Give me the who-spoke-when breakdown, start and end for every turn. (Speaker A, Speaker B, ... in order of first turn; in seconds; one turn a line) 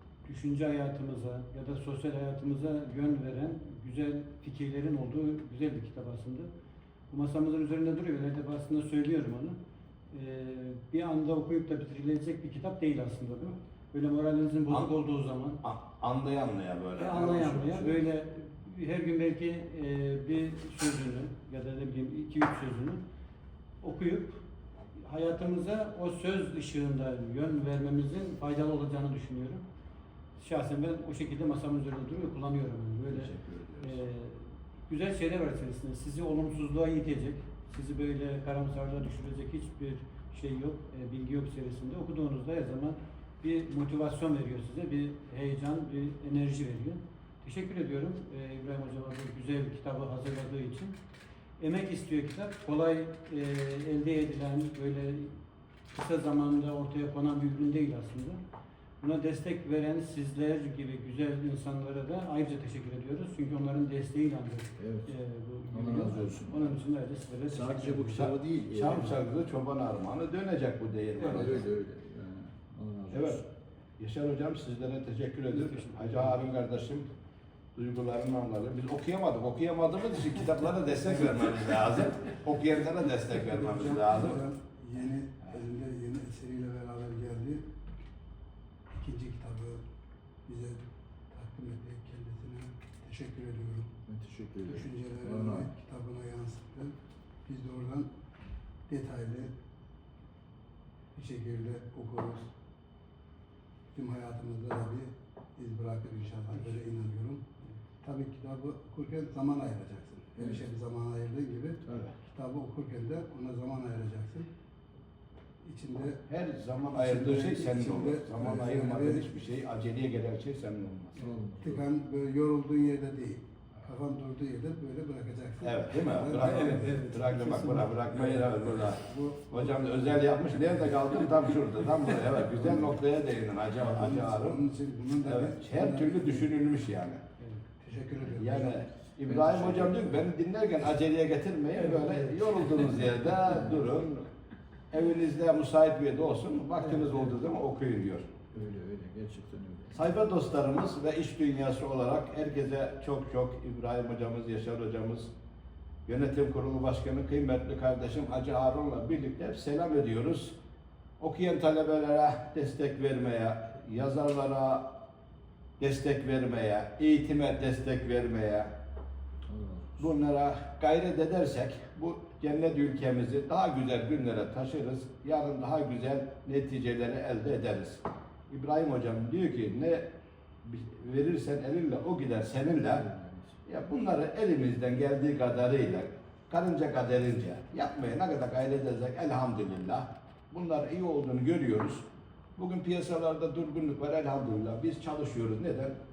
Speaker A: 0.2-6.5
Speaker A: 7.1-9.6
Speaker A: 10.1-15.6
Speaker B: 15.6-17.9
Speaker A: 17.0-23.0
Speaker A: 23.8-24.4
Speaker A: 25.0-29.6
Speaker A: 30.4-50.9
Speaker B: 33.1-34.0
Speaker A: 51.6-55.3
Speaker A: 55.9-58.4
Speaker A: 59.0-68.3
Speaker C: 64.8-65.1
Speaker C: 65.7-66.8
Speaker C: 67.5-69.2
Speaker B: 68.2-71.7
Speaker A: 71.2-71.5
Speaker C: 71.2-73.4
Speaker B: 73.1-73.4
Speaker B: 74.0-77.1
Speaker A: 75.5-76.3
Speaker B: 77.8-84.4
Speaker D: 83.4-87.6
Speaker D: 89.0-89.8
Speaker D: 90.5-93.9
Speaker C: 94.1-95.7
Speaker D: 94.6-96.9
Speaker D: 97.4-98.1
Speaker D: 98.9-99.5
Speaker D: 101.1-102.5
Speaker D: 103.9-107.4
Speaker D: 108.0-114.5
Speaker D: 115.6-116.2
Speaker B: 116.3-121.2
Speaker D: 116.9-119.2
Speaker C: 121.2-121.9
Speaker D: 121.6-127.0
Speaker B: 125.6-134.6
Speaker A: 126.4-128.2
Speaker D: 128.4-130.3
Speaker D: 132.4-132.9
Speaker D: 133.8-136.5
Speaker B: 135.2-137.2
Speaker D: 137.8-138.8
Speaker B: 138.4-144.3
Speaker C: 139.3-140.2
Speaker A: 141.8-142.8
Speaker C: 143.4-143.9
Speaker B: 144.9-148.5
Speaker A: 146.8-147.4
Speaker C: 148.5-150.0
Speaker B: 149.9-155.3
Speaker B: 156.1-160.6
Speaker B: 161.2-164.9
Speaker B: 165.8-168.7
Speaker C: 169.5-170.0
Speaker B: 170.0-180.1
Speaker B: 180.6-183.1
Speaker C: 182.9-183.5
Speaker B: 183.7-196.0